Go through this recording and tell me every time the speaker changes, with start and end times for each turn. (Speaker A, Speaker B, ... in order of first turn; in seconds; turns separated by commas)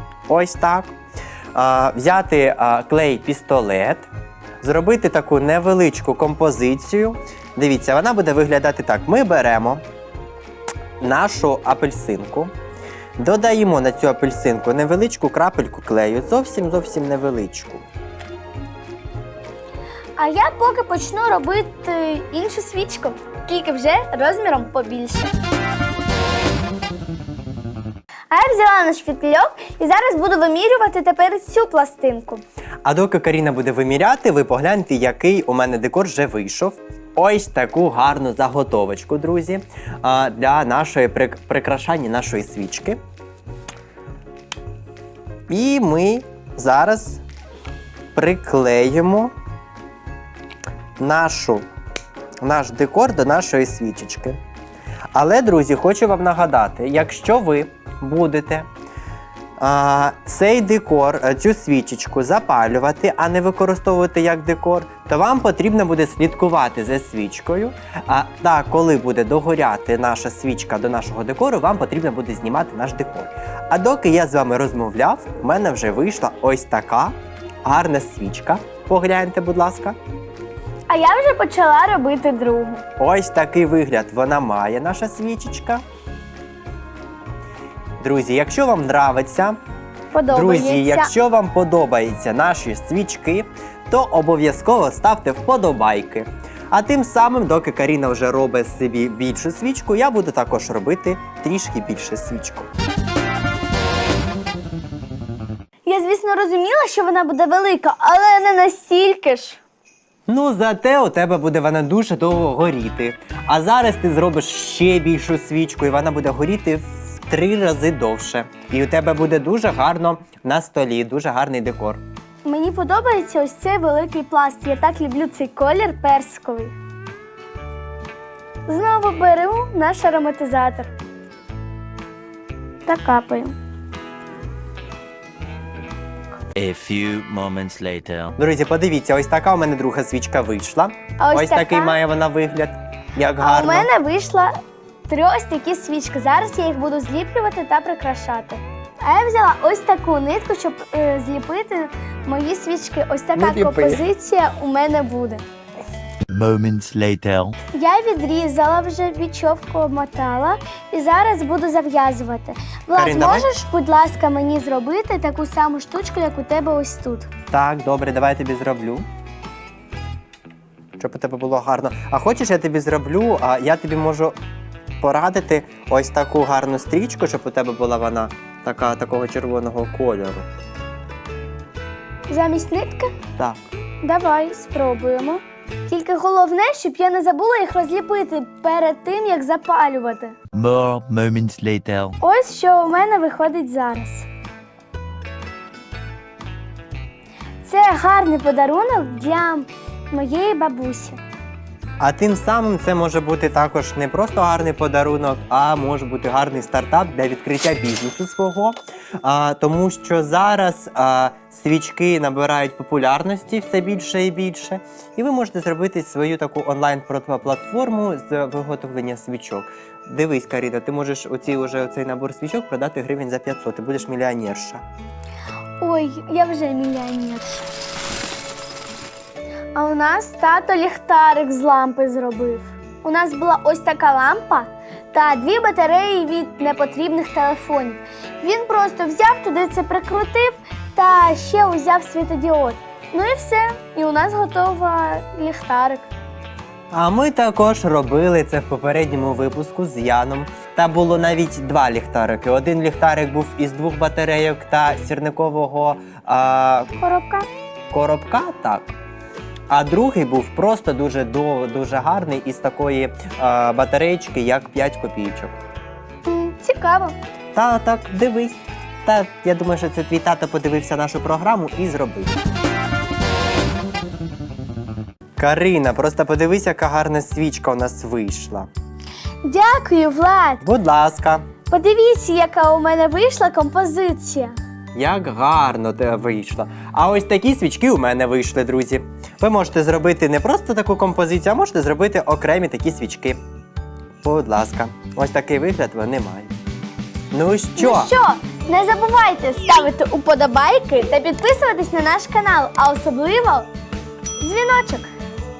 Speaker A: 0.3-0.9, Speaker A: 1.5-4.1, Speaker A: 4.6-9.8, Speaker A: 11.0-12.5, Speaker A: 13.2-17.9, Speaker B: 20.2-25.3, Speaker B: 28.3-32.4, Speaker A: 32.8-43.0, Speaker A: 45.5-47.2, Speaker A: 48.1-49.3, Speaker A: 51.0-51.7, Speaker A: 52.4-54.4, Speaker A: 55.1-58.7, Speaker A: 59.6-80.0, Speaker B: 80.9-82.8, Speaker A: 83.0-85.8, Speaker A: 88.0-89.6, Speaker B: 90.1-91.1, Speaker A: 90.3-102.7, Speaker B: 105.8-109.6, Speaker A: 110.3-122.0, Speaker B: 122.4-126.8, Speaker B: 128.7-130.9, Speaker B: 132.8-133.6, Speaker C: 136.6-138.4, Speaker A: 138.4-143.9, Speaker B: 141.2-142.0, Speaker B: 143.4-144.5, Speaker B: 145.1-155.4, Speaker A: 153.4-154.0, Speaker C: 156.3-157.6, Speaker B: 157.7-167.3, Speaker A: 162.9-163.5, Speaker A: 167.5-169.1, Speaker A: 171.0-174.4, Speaker A: 175.0-180.5, Speaker B: 182.3-183.1, Speaker B: 184.0-190.3, Speaker C: 190.5-192.2, Speaker B: 192.2-194.3, Speaker B: 197.6-201.2, Speaker A: 202.0-224.8, Speaker B: 225.8-227.7, Speaker B: 229.8-246.1, Speaker A: 246.9-256.9, Speaker B: 257.0-257.5, Speaker A: 257.9-258.9, Speaker A: 259.7-265.6, Speaker B: 266.3-267.2, Speaker A: 267.6-272.4, Speaker A: 275.4-278.7, Speaker B: 279.4-280.6, Speaker A: 280.6-281.5, Speaker B: 281.7-284.6, Speaker A: 284.9-293.4, Speaker A: 294.2-296.5, Speaker A: 297.3-298.1, Speaker B: 297.8-303.7, Speaker B: 304.4-305.1